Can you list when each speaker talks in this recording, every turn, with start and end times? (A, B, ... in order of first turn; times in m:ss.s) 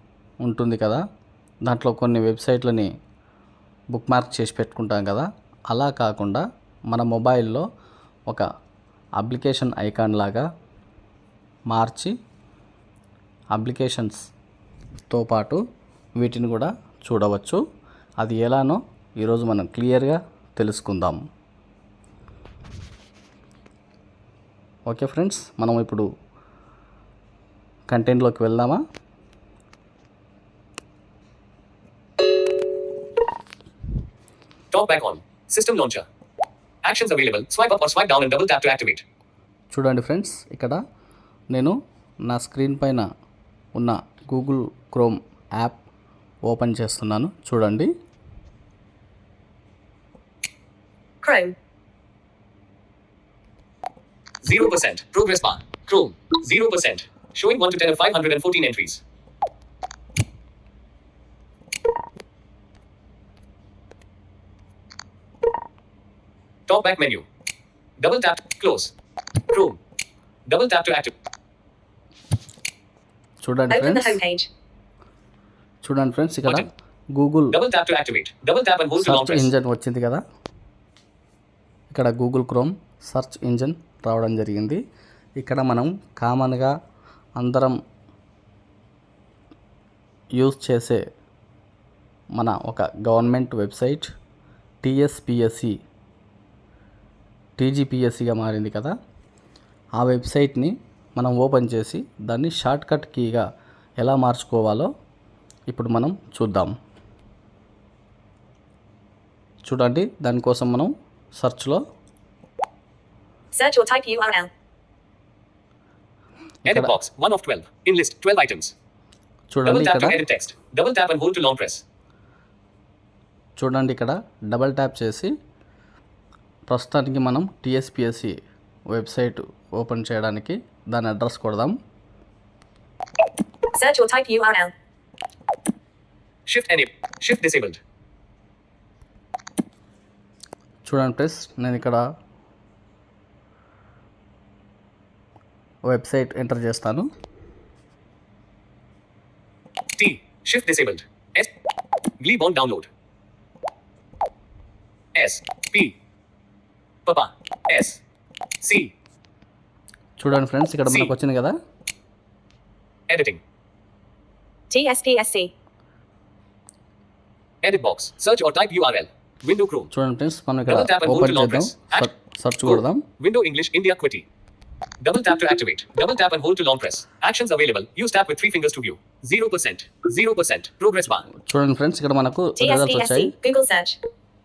0:00.4-0:01.0 A
0:01.6-0:02.9 A
0:03.9-0:07.6 A
0:09.2-0:10.5 A
0:11.7-0:12.1 A
0:13.5-0:14.2 A
0:15.1-0:15.6 A
0:16.2-0:17.6 A
0:18.2-0:21.2 A
0:24.9-0:26.1 A
0:27.9-0:28.8 A
0:34.7-0:36.0 B
0:36.8-0:39.0 B
0:39.7-0:40.8 A
0:41.5-0:43.1 A
0:43.8-0:45.8 A
0:46.4-0:47.9 A
0:51.2-0:51.6 C
0:54.4-0:59.0 B
1:06.7-1:07.2 B
1:08.0-1:08.9 B
1:09.5-1:09.8 B
1:10.5-1:11.1 B
1:13.4-1:14.2 A
1:13.7-1:14.5 C
1:15.8-1:17.6 A
1:17.5-1:19.5 B
1:19.0-1:20.2 A
1:21.9-1:24.8 A
1:25.4-1:26.7 A
1:27.4-1:27.8 A
1:30.4-1:31.0 A
1:32.4-1:34.1 A
1:34.8-1:35.7 A
1:37.6-1:38.9 A
1:40.0-1:43.4 A
1:44.0-1:44.9 A
1:45.7-1:46.7 A
1:49.6-1:51.8 A
1:53.5-1:54.5 C
1:56.7-1:56.9 A
1:56.7-1:58.7 B
1:59.5-2:00.2 A
1:59.6-2:01.8 B
2:03.6-2:05.3 A
2:06.7-2:08.3 A
2:08.9-2:11.7 A
2:13.7-2:14.7 C
2:16.5-2:17.8 B
2:20.8-2:22.0 A
2:25.9-2:27.1 A
2:30.0-2:31.5 B
2:32.2-2:32.9 B
2:35.2-2:35.9 B
2:37.1-2:38.0 B
2:38.6-2:38.9 B
2:40.2-2:41.6 A
2:40.9-2:41.1 B
2:43.1-2:43.4 B
2:44.7-2:45.5 C
2:47.6-2:49.9 B
2:49.9-2:53.0 A
2:50.7-2:52.1 B
2:52.6-2:54.3 B
2:55.0-3:01.3 B
3:01.5-3:03.3 A
3:02.6-3:04.0 C